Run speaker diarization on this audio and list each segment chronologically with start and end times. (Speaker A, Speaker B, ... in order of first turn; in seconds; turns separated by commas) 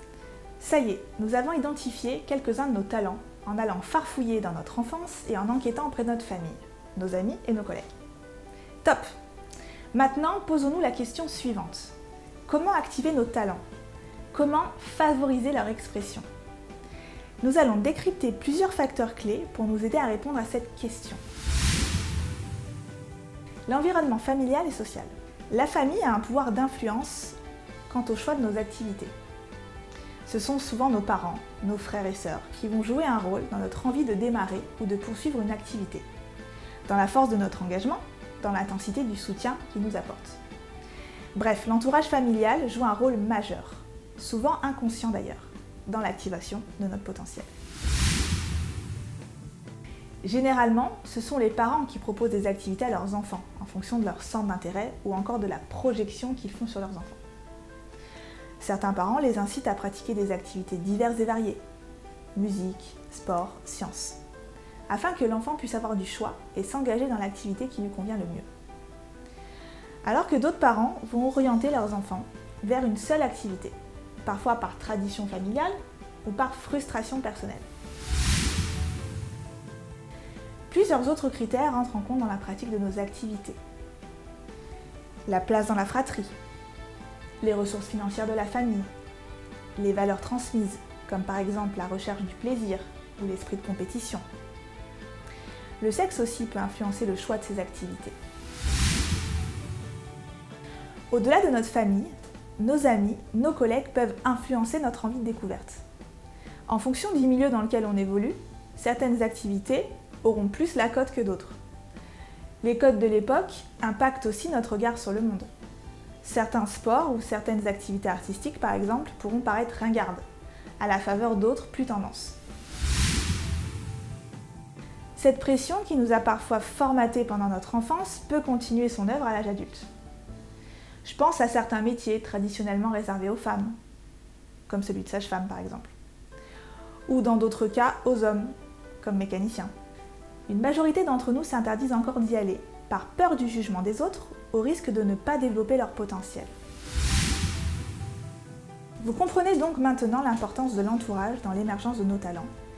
Speaker A: 0.6-7.9, Speaker A: 8.8-9.1, Speaker A: 9.9-11.9, Speaker A: 12.5-13.6, Speaker A: 14.3-16.2, Speaker A: 17.4-21.2, Speaker A: 23.7-27.4, Speaker A: 27.9-29.1, Speaker A: 30.3-36.1, Speaker A: 36.9-40.4, Speaker A: 41.3-47.5, Speaker A: 50.2-57.2, Speaker A: 58.6-61.6, Speaker A: 62.4-64.2, Speaker A: 64.9-68.5, Speaker A: 70.0-75.7, Speaker A: 76.2-77.7, Speaker A: 80.7-83.6, Speaker A: 85.3-86.3, Speaker A: 87.4-88.9, Speaker A: 89.8-94.2, Speaker A: 95.8-98.2, Speaker A: 101.1-105.8, Speaker A: 106.7-111.6, Speaker A: 112.6-115.5, Speaker A: 116.2-120.2, Speaker A: 120.8-122.4, Speaker A: 125.2-129.9, Speaker A: 131.0-133.8, Speaker A: 134.7-135.9, Speaker A: 137.1-139.7, Speaker A: 140.5-146.5, Speaker A: 149.0-152.5